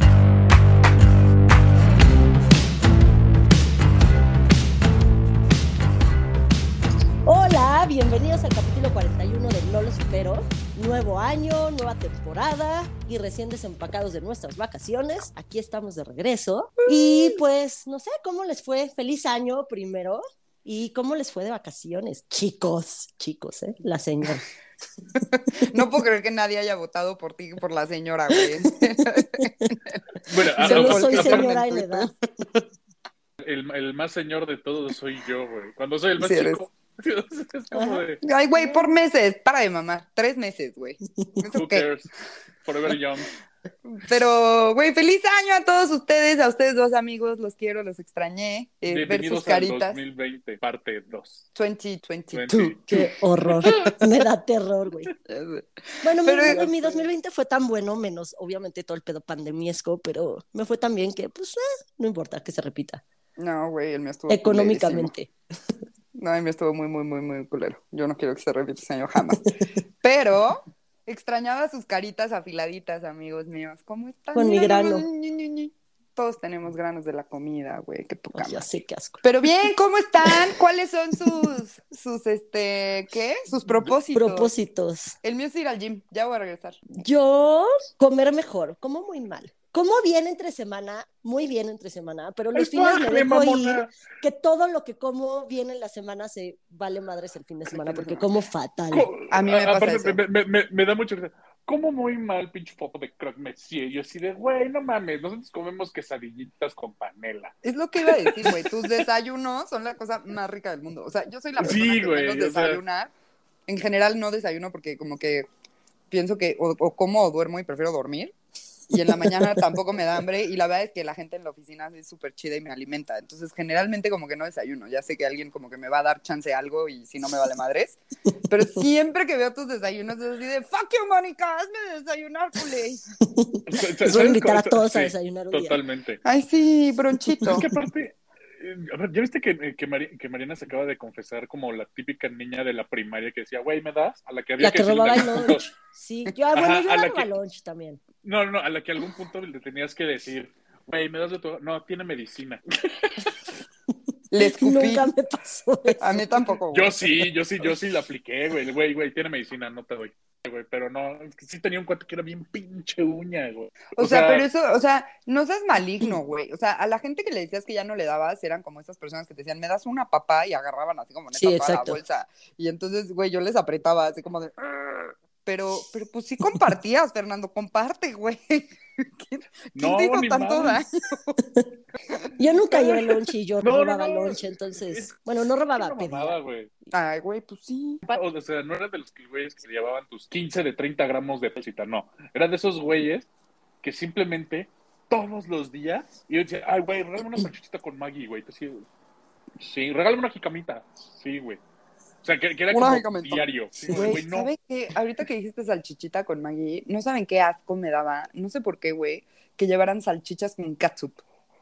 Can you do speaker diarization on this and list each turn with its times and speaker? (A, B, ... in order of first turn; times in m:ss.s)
0:07.2-0:24.4 A
0:16.9-0:17.4 B
0:25.1-0:30.0 B
0:29.2-0:29.7 A
0:30.3-0:31.5 C
0:30.6-0:32.1 B
0:30.6-0:32.1 A
0:33.4-0:38.2 C
0:36.2-0:36.6 B
0:37.7-0:38.0 A
0:38.2-0:41.9 B
0:41.5-0:42.1 C
0:42.6-0:43.3 C
0:43.9-0:50.0 B
0:48.8-0:51.4 C
0:51.5-0:52.5 B
0:52.3-0:52.8 C
0:52.5-0:55.1 A
0:53.5-0:53.9 C
0:55.3-0:57.1 B
0:56.0-1:03.0 A
1:03.4-1:05.1 B
1:04.3-1:05.3 A
1:06.1-1:09.5 B
1:10.0-1:18.7 B
1:14.3-1:15.0 A
1:18.3-1:19.2 A
1:19.2-1:24.5 B
1:24.1-1:25.2 A
1:25.2-1:26.8 B
1:26.9-1:39.1 A
1:32.5-1:33.9 C
1:37.7-1:38.2 B
1:38.9-1:47.5 C
1:39.3-1:40.2 B
1:47.6-1:53.1 B
1:48.2-1:48.7 C
1:51.6-1:52.8 C
1:53.7-1:55.5 B
1:56.1-1:58.3 B
1:58.9-2:13.0 B
2:13.2-2:15.8 A
2:13.7-2:16.2 C
2:16.2-2:17.6 B
2:17.4-2:25.7 C
2:24.6-2:28.0 A
2:26.5-2:27.3 C
2:28.2-2:33.3 C
2:34.3-2:35.1 B
2:34.4-2:36.4 A
2:36.0-2:37.3 B
2:36.7-2:44.5 C
2:43.9-3:01.4 B
2:51.3-2:52.0 A
2:59.7-3:00.8 C
3:02.1-3:03.2 B
3:02.4-3:06.4 A
3:03.6-3:05.2 C
3:05.7-3:06.7 C
3:06.9-3:08.0 B
3:08.1-3:13.3 C
3:13.8-3:18.8 C
3:19.6-3:21.6 C
3:22.2-3:24.5 C
3:22.7-3:31.2 B